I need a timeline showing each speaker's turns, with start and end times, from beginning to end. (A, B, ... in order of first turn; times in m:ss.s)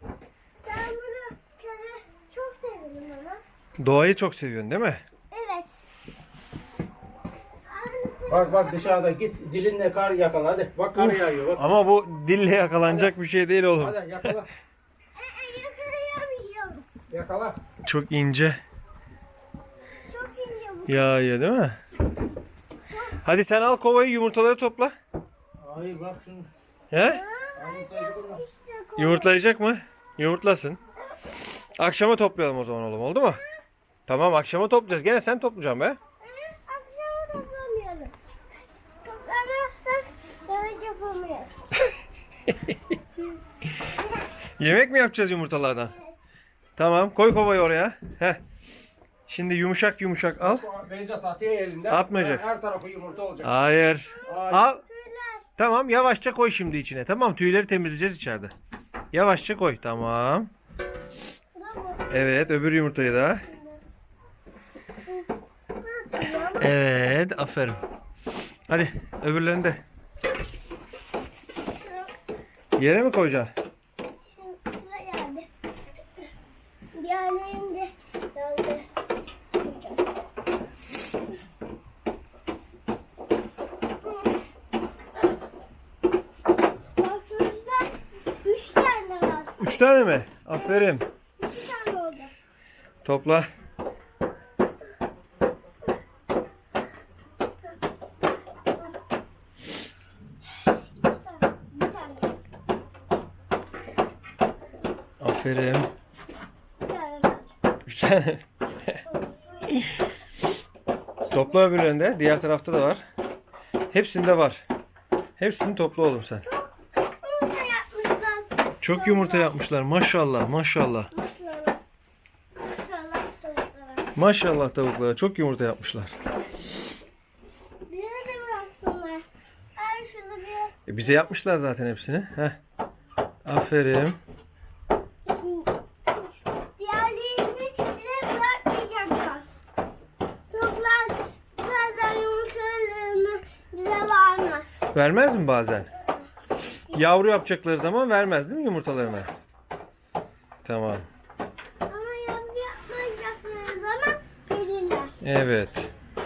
0:00.6-0:03.4 A
0:03.8-0:05.0 B
0:05.3-0:05.7 A
0:07.7-0:09.0 A
0:08.3-0:11.6 C
0:11.0-0:14.4 B
0:13.8-0:14.4 C
0:15.1-0:16.8 A
0:17.1-0:17.6 C
0:17.8-0:18.6 B
0:20.1-0:21.1 A
0:20.9-0:21.8 B
0:22.9-0:23.2 A
0:23.2-0:25.0 B
0:25.6-0:26.5 C
0:26.9-0:27.2 B
0:27.0-0:29.3 A
0:27.6-0:28.4 C
0:29.0-0:30.8 B
0:31.8-0:33.4 B
0:34.1-0:36.0 B
0:36.2-0:38.1 A
0:39.0-0:41.5 A
0:42.5-0:42.9 B
0:44.6-0:45.9 B
0:46.8-0:48.4 B
0:49.3-0:50.7 B
0:50.6-0:53.5 C
0:51.9-0:52.4 B
0:53.4-0:54.8 B
0:54.1-0:55.4 A
0:54.3-0:54.6 C
0:55.6-0:58.5 B
0:59.1-1:00.5 B
1:01.5-1:02.2 A
1:02.1-1:03.5 B
1:03.5-1:03.8 A
1:05.8-1:06.7 A
1:06.6-1:07.8 B
1:08.7-1:09.8 B
1:12.8-1:13.5 B
1:14.3-1:15.5 A
1:16.9-1:18.9 A
1:19.6-1:20.0 A
1:27.0-1:32.3 A
1:29.6-1:31.1 B
1:33.0-1:33.5 B
1:40.9-1:42.3 A
1:45.2-1:45.9 B
1:46.8-1:47.5 A
1:47.9-1:49.0 B
1:49.1-1:49.8 A
1:51.3-1:53.0 B
1:53.9-1:54.6 B
1:55.4-1:56.4 B
1:56.4-1:59.5 A
1:58.8-2:01.1 B
2:01.1-2:01.8 A
2:02.6-2:04.1 A
2:04.2-2:06.1 B
2:07.9-2:09.2 A
2:09.8-2:10.7 A
2:10.9-2:12.6 B
2:13.4-2:14.2 B
2:15.3-2:16.2 A
2:16.8-2:19.5 A
2:20.5-2:24.8 A
2:24.9-2:25.9 B
2:26.9-2:29.3 B
2:30.6-2:31.1 B
2:31.9-2:35.1 A
2:35.2-2:35.9 B